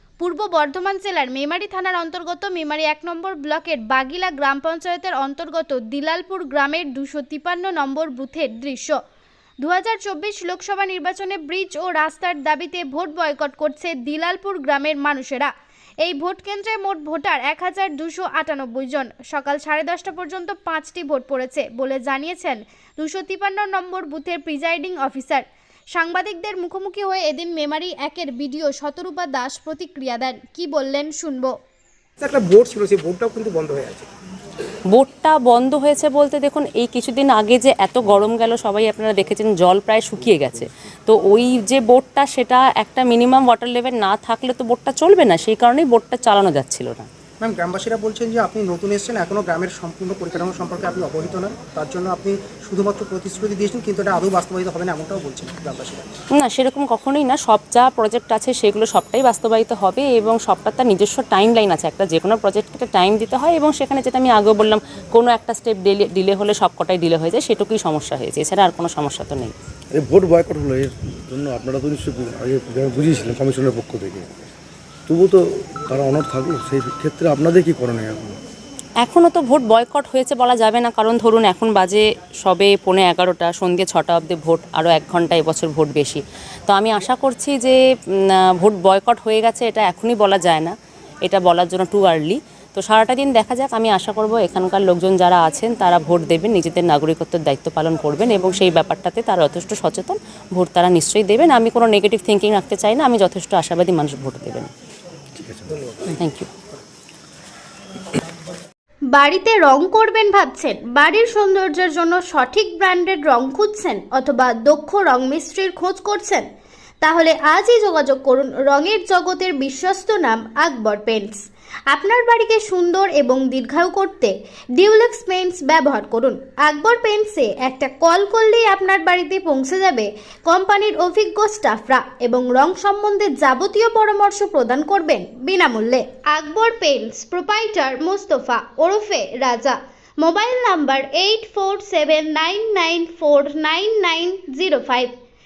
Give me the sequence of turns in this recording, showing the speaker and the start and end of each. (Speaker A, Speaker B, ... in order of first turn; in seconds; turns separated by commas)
Speaker A: 0.2-9.0, Speaker A: 9.6-15.5, Speaker A: 16.0-31.5, Speaker B: 32.2-34.1, Speaker C: 34.9-47.1, Speaker B: 47.4-56.1, Speaker C: 56.4-69.5, Speaker D: 69.9-74.3, Speaker D: 75.1-78.4, Speaker C: 79.0-104.7, Speaker D: 105.4-105.8, Speaker C: 106.2-106.5, Speaker A: 109.1-116.5, Speaker A: 117.0-145.1